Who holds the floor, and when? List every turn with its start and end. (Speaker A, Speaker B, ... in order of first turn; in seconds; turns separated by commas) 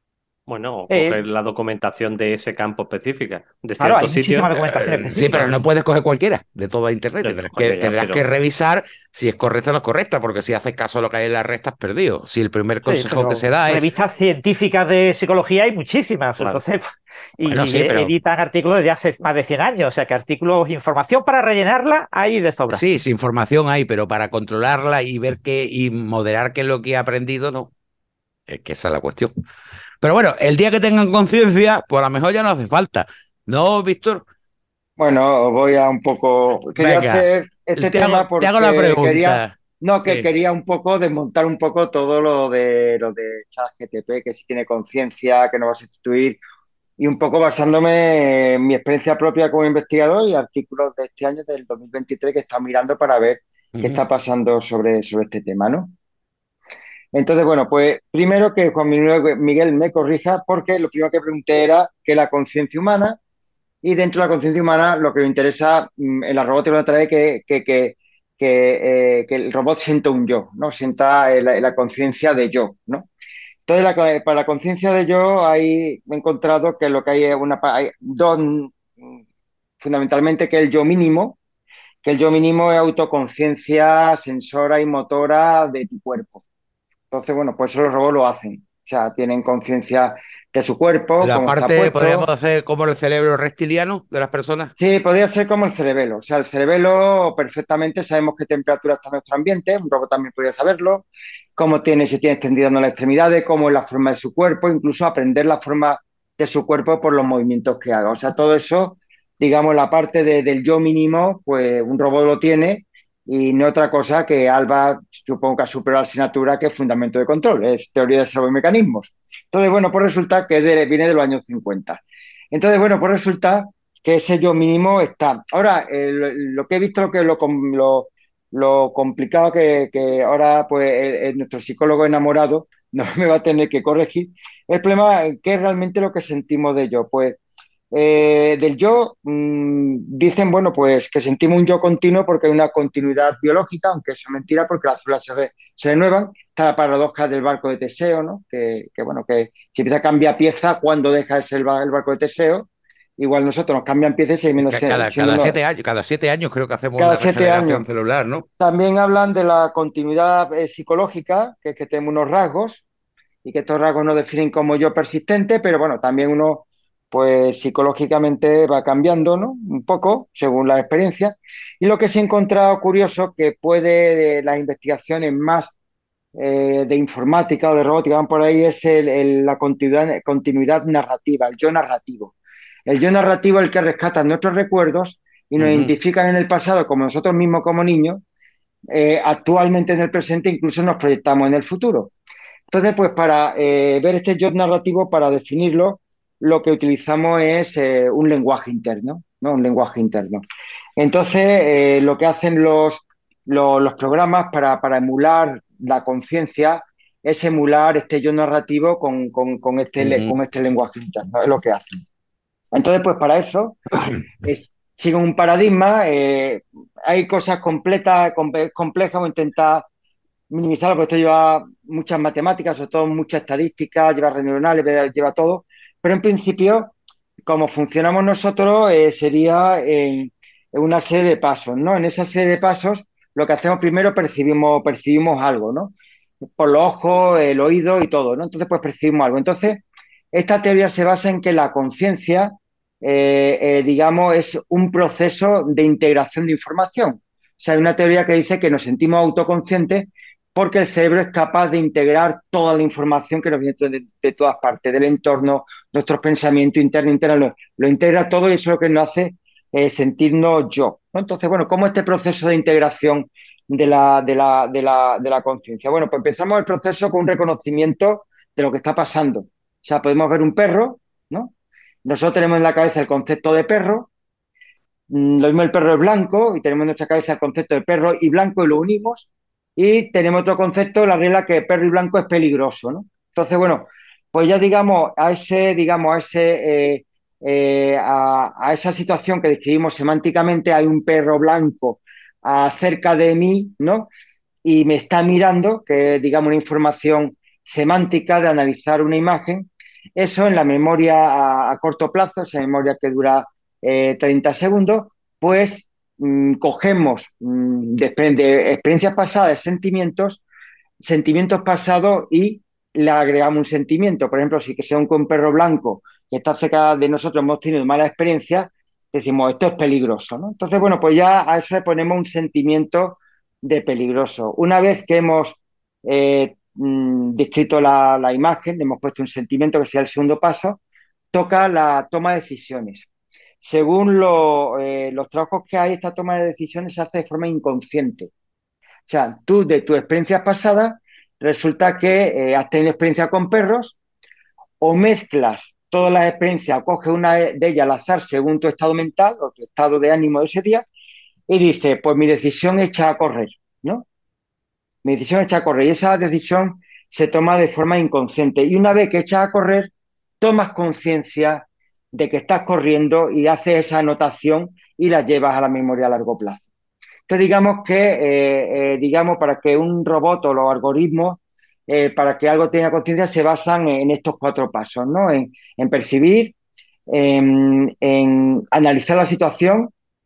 Speaker A: 0.5-5.6, Speaker B: 0.9-1.2, Speaker B: 3.8-5.5, Speaker C: 5.1-13.9, Speaker A: 7.2-8.2, Speaker B: 12.8-22.8, Speaker C: 17.4-18.1, Speaker C: 22.7-27.7, Speaker C: 28.5-29.3, Speaker C: 30.0-34.2, Speaker D: 35.0-46.4, Speaker C: 36.8-40.3, Speaker D: 47.0-55.9, Speaker C: 53.7-54.0, Speaker D: 57.1-63.2, Speaker D: 63.8-73.1, Speaker D: 73.7-79.2, Speaker D: 79.8-81.4, Speaker D: 82.0-86.4, Speaker D: 87.1-92.3, Speaker C: 91.2-94.7, Speaker D: 94.8-122.0, Speaker D: 122.5-137.4, Speaker D: 137.9-155.6, Speaker C: 154.6-158.5, Speaker D: 157.0-157.8, Speaker D: 158.6-162.8, Speaker D: 163.4-175.7, Speaker D: 176.3-182.3, Speaker D: 182.9-188.2, Speaker C: 185.6-185.9, Speaker D: 188.9-192.1, Speaker D: 192.7-200.4, Speaker D: 201.0-212.0, Speaker C: 210.0-210.3, Speaker D: 212.7-213.8, Speaker D: 214.4-219.8, Speaker D: 220.5-226.9, Speaker D: 227.4-235.9, Speaker D: 236.6-271.5, Speaker D: 272.0-274.1, Speaker D: 275.1-294.1, Speaker D: 294.6-310.4, Speaker D: 311.0-330.8, Speaker D: 331.3-333.1, Speaker D: 333.6-338.3, Speaker D: 339.1-344.0, Speaker D: 344.8-350.9, Speaker D: 351.5-354.0, Speaker D: 355.0-366.6, Speaker D: 367.3-376.5, Speaker D: 377.1-379.9